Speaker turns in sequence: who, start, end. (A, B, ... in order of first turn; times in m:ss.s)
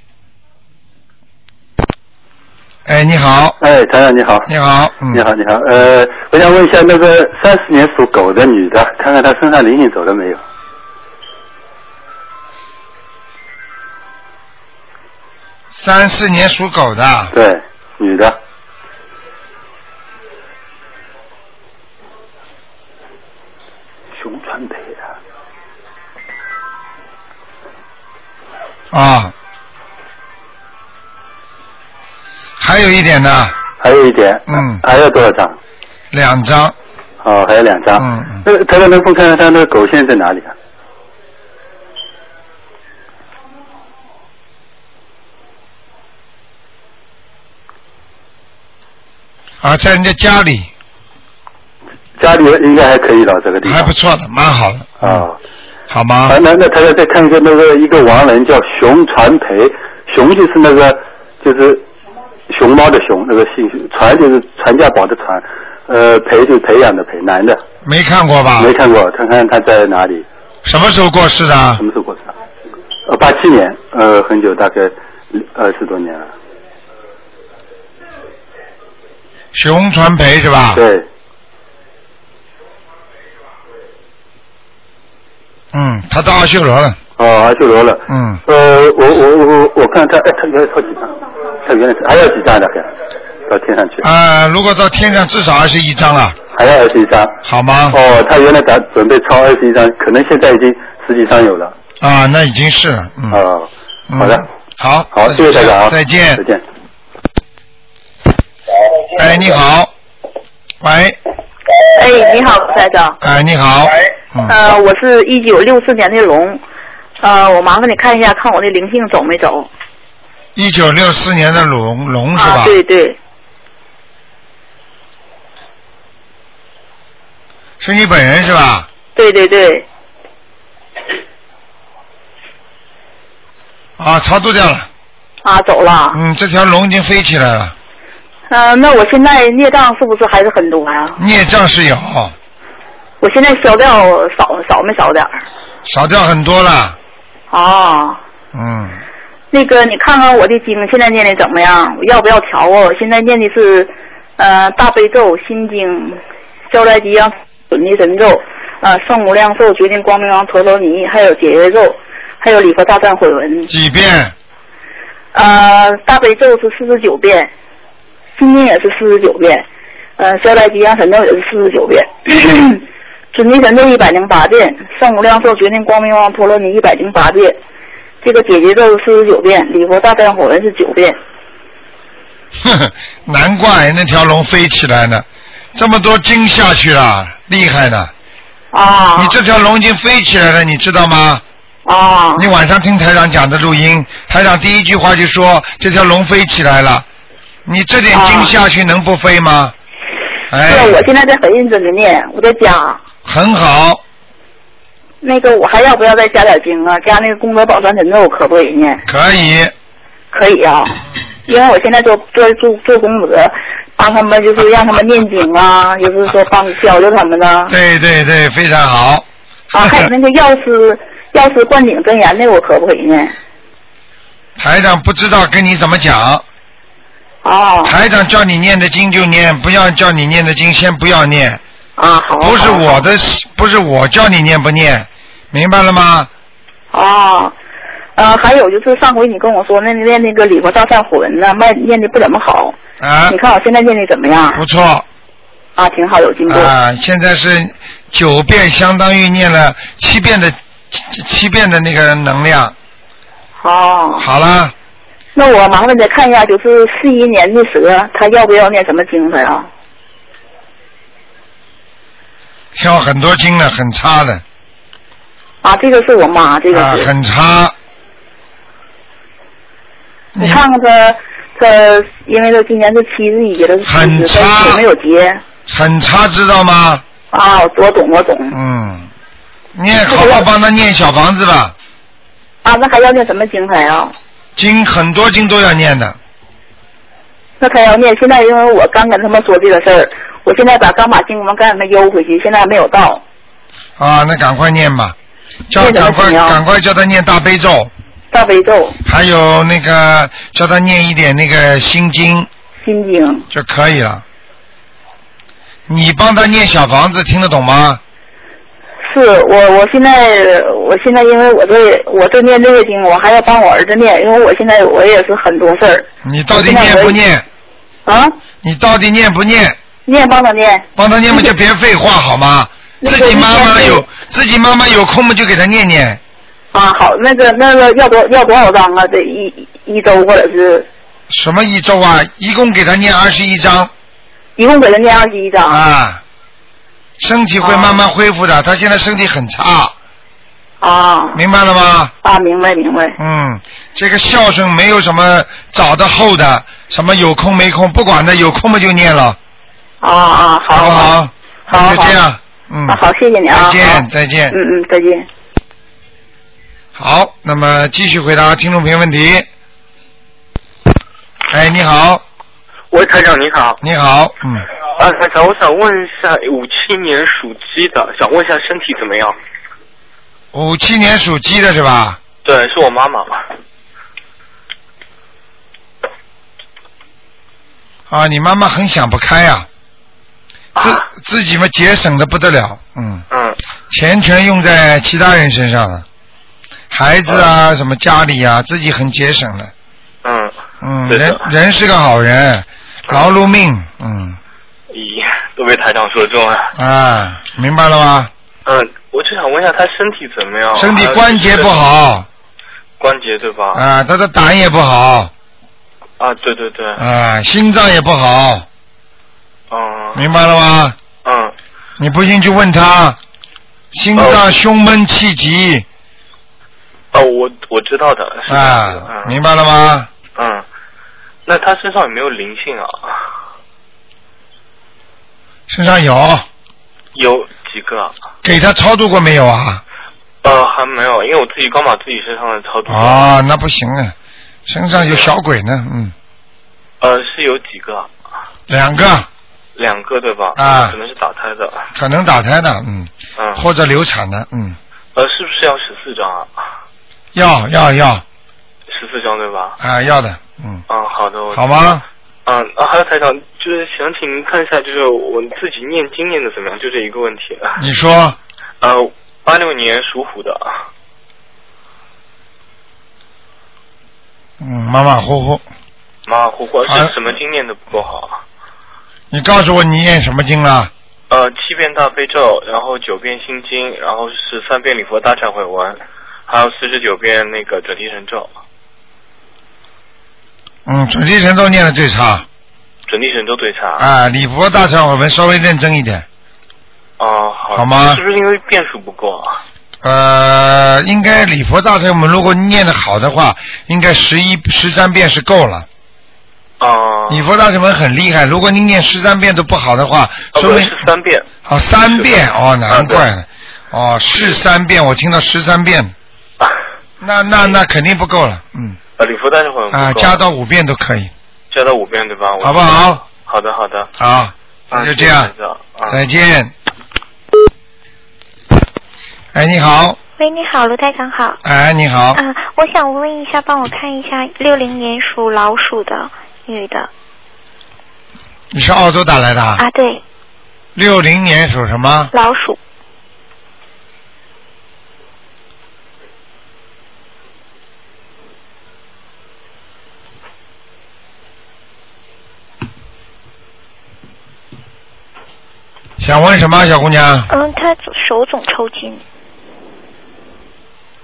0:02.9-0:03.6 A
0:03.6-0:04.5 B
0:04.5-0:05.2 A
0:05.1-0:10.4 B
0:15.7-0:17.3 A
0:17.3-0:18.4 B
0:24.2-0:25.0 B
0:28.9-0:29.3 A
0:32.6-0:33.6 A
0:33.8-0:35.6 B
0:34.5-0:34.8 A
0:36.1-0:36.8 A
0:37.2-0:40.5 B
0:38.0-0:38.4 A
0:49.6-0:50.7 A
0:52.2-0:53.9 B
0:53.6-0:55.3 A
0:55.0-0:55.4 B
0:55.9-0:56.4 A
0:56.3-1:01.8 B
1:02.5-1:07.6 B
1:07.8-1:08.7 A
1:08.6-1:10.2 B
1:10.6-1:11.8 A
1:11.8-1:12.3 B
1:13.1-1:16.3 B
1:19.5-1:20.8 A
1:20.7-1:21.1 B
1:25.7-1:27.0 A
1:27.2-1:32.9 B
1:28.1-1:28.4 A
1:33.5-1:34.0 B
1:34.0-1:36.4 A
1:36.5-1:37.4 B
1:37.4-1:38.0 A
1:37.9-1:41.7 B
1:42.0-1:43.4 A
1:43.3-1:44.4 B
1:44.1-1:46.4 A
1:45.1-1:46.6 B
1:49.1-1:49.9 A
1:50.8-1:51.2 A
1:52.0-1:53.2 C
1:53.2-1:54.6 A
1:54.5-1:56.6 C
1:57.2-1:59.7 C
2:00.6-2:02.8 A
2:02.4-2:03.2 C
2:07.8-2:08.9 A
2:09.2-2:09.8 C
2:14.0-2:14.9 A
2:15.4-2:16.2 C
2:16.1-2:17.8 A
2:18.5-2:21.2 C
2:21.2-2:22.3 A
2:23.2-2:25.3 C
2:25.9-2:27.0 A
2:27.5-2:28.2 C
2:28.5-2:29.0 A
2:29.5-2:36.2 C
2:36.7-2:43.7 C
2:43.7-2:44.3 A
2:45.3-2:47.5 C
2:48.4-2:49.6 C
2:50.2-2:52.8 C
2:53.3-2:57.6 C
2:58.2-3:01.2 C
3:02.6-3:08.1 A
3:08.7-3:09.4 C
3:09.2-3:11.4 A
3:11.9-3:12.5 C
3:12.4-3:17.0 A
3:17.7-3:19.7 A
3:18.1-3:18.5 C
3:20.5-3:21.0 A
3:20.7-3:23.0 C
3:23.2-3:24.0 A
3:25.2-3:29.0 C
3:29.1-3:29.7 A
3:30.3-3:37.8 C
3:37.7-3:40.1 A
3:39.7-3:43.3 C
3:44.6-3:46.4 A
3:47.4-3:48.0 C
3:47.8-3:51.6 A
3:52.0-3:53.0 C
3:52.4-3:56.3 A
3:56.9-3:57.5 C
3:58.2-4:02.8 C
4:03.0-4:03.4 A
4:03.3-4:04.6 C
4:04.6-4:05.0 A
4:05.8-4:06.7 C
4:06.5-4:12.8 A
4:13.6-4:14.3 C
4:14.2-4:14.7 A
4:15.4-4:19.7 C
4:22.7-4:24.4 A
4:25.6-4:27.1 C
4:26.7-4:27.7 A
4:30.4-4:30.6 A
4:30.4-4:35.4 C
4:33.8-4:34.8 A
4:35.7-4:37.0 A
4:37.3-4:38.6 C
4:38.5-4:39.1 A
4:39.8-4:41.7 A
4:40.1-4:40.4 C
4:42.6-4:44.1 C
4:44.6-4:46.2 A
4:47.6-4:53.2 C
4:54.0-4:55.2 A
4:55.7-4:57.9 A
4:55.7-4:56.6 C
4:58.3-4:59.0 C
4:59.0-5:02.5 A
5:02.8-5:03.5 C
5:03.5-5:04.2 A
5:05.9-5:08.0 A
5:09.1-5:17.2 C
5:16.2-5:17.4 A
5:18.1-5:18.4 C
5:18.6-5:19.8 A
5:20.1-5:21.5 C
5:21.0-5:26.2 A
5:23.0-5:24.0 C
5:26.7-5:30.9 C
5:31.3-5:33.9 A
5:34.6-5:35.8 C
5:35.7-5:36.2 A
5:37.2-5:39.9 A
5:37.6-5:38.0 C
5:40.8-5:41.4 C
5:41.3-5:42.1 A
5:42.2-5:43.2 C
5:43.2-5:49.4 A
5:50.0-5:51.1 C
5:50.7-5:54.6 A
5:51.7-5:52.2 C
5:52.9-5:55.3 C
5:57.0-5:59.5 A
6:01.5-6:02.2 A
6:02.9-6:03.8 D
6:03.8-6:04.7 A
6:05.0-6:09.4 D
6:10.5-6:12.2 A
6:12.4-6:13.5 D
6:18.1-6:19.7 A
6:20.8-6:21.0 D
6:20.8-6:23.2 A
6:23.3-6:23.6 D
6:23.9-6:26.0 A
6:26.9-6:29.7 A
6:30.2-6:30.5 D
6:30.8-6:34.4 A
6:31.1-6:31.4 D
6:34.9-6:36.7 D
6:36.8-6:38.3 A
6:38.7-6:41.8 D
6:40.8-6:42.3 A
6:43.0-6:43.8 D
6:43.7-6:45.3 A
6:46.2-6:47.0 D
6:47.0-6:48.7 A
6:49.7-6:50.3 D
6:50.2-6:51.0 A
6:51.2-6:51.5 D
6:52.0-6:53.2 A
6:53.9-6:55.9 A
6:54.2-6:54.5 D
6:57.1-6:59.4 D
6:58.5-7:00.1 A
7:00.4-7:00.6 D
7:01.5-7:03.3 D
7:05.7-7:06.4 A
7:07.2-7:08.2 D
7:08.4-7:09.8 A
7:10.4-7:13.3 D
7:12.9-7:14.1 A
7:14.7-7:16.1 A
7:14.9-7:15.3 D
7:17.0-7:18.1 D
7:18.7-7:19.3 A
7:19.8-7:21.9 D
7:20.6-7:21.0 A
7:22.0-7:24.8 A
7:23.4-7:23.6 D
7:25.2-7:26.5 D
7:27.3-7:28.2 A
7:28.9-7:29.8 D
7:29.8-7:30.8 A
7:30.9-7:37.8 D
7:31.5-7:32.0 A
7:37.8-7:38.4 A
7:38.8-7:40.8 D
7:44.6-7:45.6 A
7:46.3-7:48.4 D
7:46.9-7:47.1 A
7:49.3-7:50.9 A
7:51.3-7:58.5 D
8:00.9-8:02.5 A
8:03.1-8:04.1 D
8:04.0-8:06.3 A
8:07.2-8:09.6 D
8:07.7-8:08.2 A
8:10.0-8:15.9 A
8:16.8-8:17.5 D
8:17.3-8:20.9 A
8:20.5-8:21.5 D
8:21.6-8:26.1 A
8:22.0-8:23.2 D
8:27.2-8:29.0 A
8:29.2-8:30.4 D
8:29.9-8:31.3 A
8:31.7-8:34.1 D
8:32.6-8:33.2 A
8:34.2-8:35.5 A
8:34.9-8:36.2 D
8:36.1-8:36.7 A
8:39.5-8:40.2 A
8:40.4-8:41.6 E
8:41.6-8:42.4 A
8:42.3-8:47.1 E
8:48.7-8:49.8 A
8:49.8-8:50.2 E
8:51.0-8:52.3 A
8:52.3-8:52.8 E
9:06.2-9:07.5 A
9:07.5-9:09.2 E